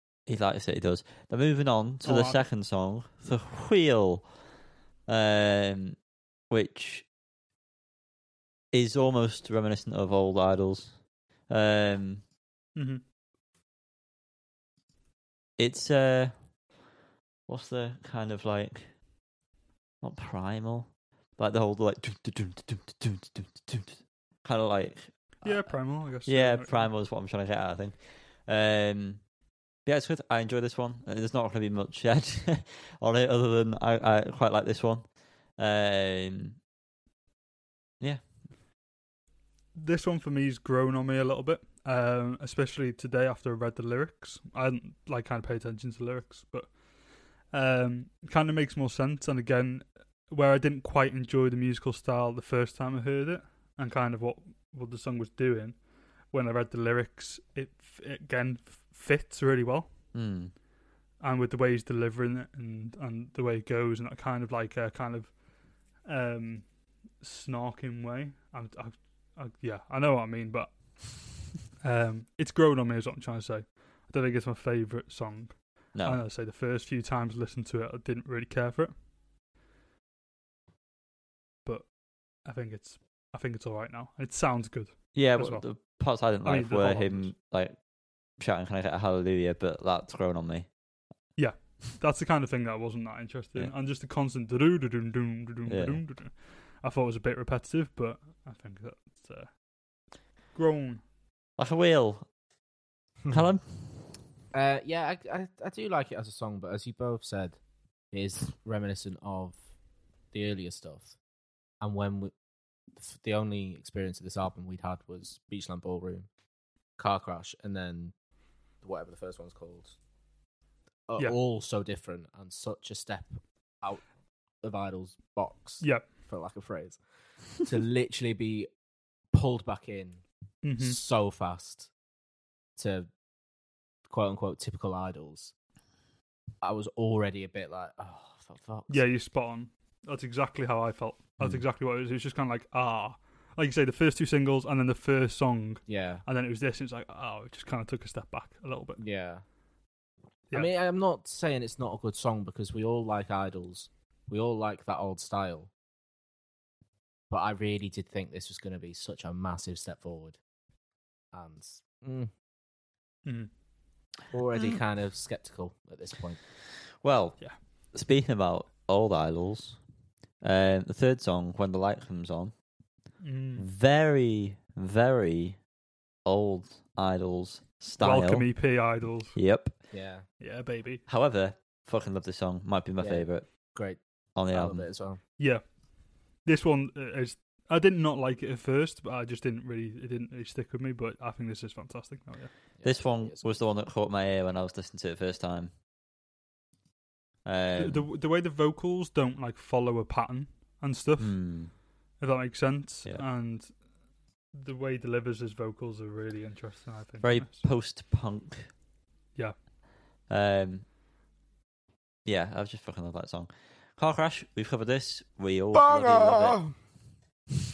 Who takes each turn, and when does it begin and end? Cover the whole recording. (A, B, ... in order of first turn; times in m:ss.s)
0:00.3-0:04.3 A
0:02.0-0:02.4 B
0:05.1-0:06.0 A
0:06.5-0:07.1 A
0:08.7-0:12.2 A
0:12.8-0:13.0 B
0:15.6-0:16.3 A
0:17.5-0:18.9 A
0:20.0-0:29.2 A
0:25.4-0:26.9 B
0:29.8-0:35.0 A
0:35.6-0:36.6 A
0:39.8-0:46.8 B
0:47.4-0:55.8 B
0:56.3-0:59.9 B
1:00.1-1:00.5 A
1:01.2-1:05.4 B
1:06.0-1:18.9 B
1:15.9-1:16.2 A
1:21.6-1:21.9 B
1:22.4-1:27.3 B
1:25.2-1:27.8 A
1:28.4-1:30.7 A
1:31.4-1:39.6 B
1:35.7-1:36.0 A
1:40.5-1:41.0 B
1:41.6-1:42.3 A
1:43.3-1:44.1 A
1:44.5-1:49.7 C
1:50.3-1:51.2 C
1:51.8-1:52.3 C
1:53.0-1:56.3 C
1:57.0-1:58.2 C
1:58.8-2:00.0 C
2:01.1-2:04.1 C
2:04.6-2:08.7 C
2:05.8-2:06.1 B
2:09.3-2:10.2 C
2:10.6-2:11.0 B
2:10.8-2:11.9 C
2:12.8-2:13.1 C
2:14.1-2:15.5 C
2:16.6-2:19.0 C
2:18.9-2:29.0 B
2:25.9-2:26.2 C
2:29.0-2:29.4 C
2:30.5-2:35.7 C
2:37.3-2:40.4 C
2:41.3-2:42.3 C
2:43.2-2:43.5 B
2:44.3-2:46.4 C
2:47.0-2:49.8 A
2:50.4-2:52.5 A
2:53.2-2:53.7 B
2:53.6-2:55.6 A
2:56.2-2:58.6 A
2:58.0-2:59.4 B
2:59.3-2:59.8 A
2:59.9-3:00.3 C
3:00.4-3:01.0 B
3:01.1-3:03.5 A
3:03.0-3:05.2 C
3:04.4-3:04.9 A
3:05.4-3:05.8 B
3:06.4-3:12.5 B
3:12.8-3:13.6 C
3:12.8-3:15.7 A
3:17.4-3:18.0 A
3:17.8-3:23.8 B
3:21.2-3:21.7 A
3:24.5-3:27.6 B
3:27.2-3:28.7 A
3:30.3-3:30.8 A
3:32.2-3:36.8 A
3:35.7-3:36.8 C